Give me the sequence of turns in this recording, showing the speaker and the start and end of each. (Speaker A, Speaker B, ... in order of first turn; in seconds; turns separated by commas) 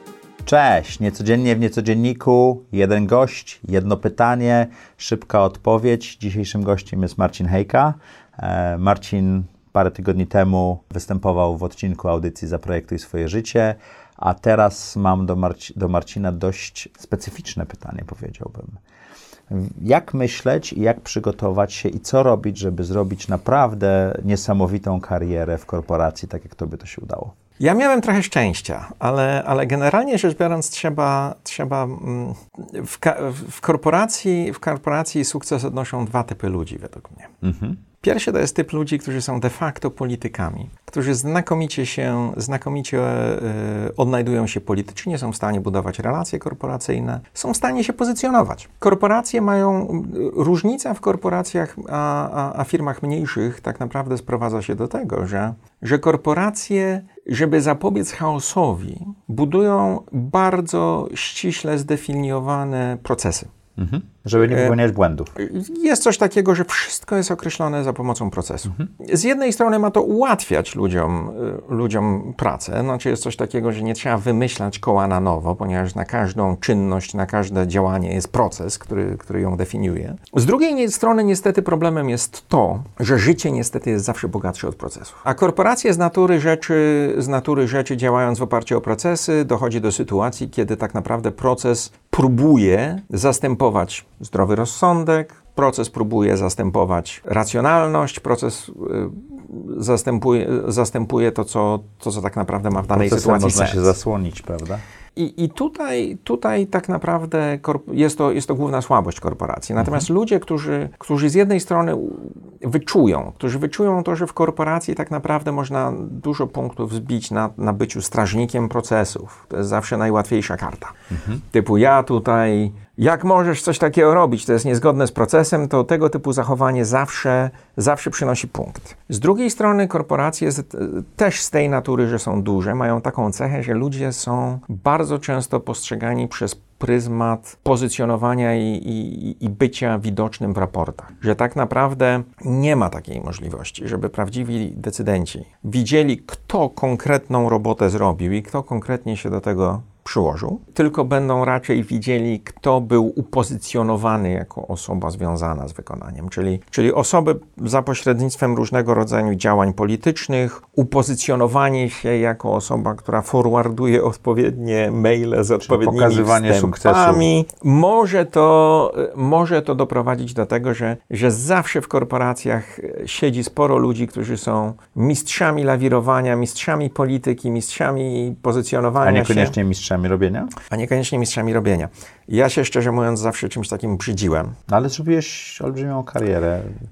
Speaker A: 0.5-18.8, Speaker A: 19.5-27.3, Speaker B: 27.6-37.4, Speaker A: 37.4-37.8, Speaker B: 38.0-63.5, Speaker A: 63.8-65.3, Speaker B: 64.5-64.8, Speaker B: 65.3-103.9, Speaker A: 102.9-104.8, Speaker B: 105.2-179.5, Speaker A: 109.8-110.0, Speaker A: 121.1-121.4, Speaker A: 165.6-167.3, Speaker A: 179.0-180.5, Speaker B: 180.7-184.6, Speaker A: 184.7-186.7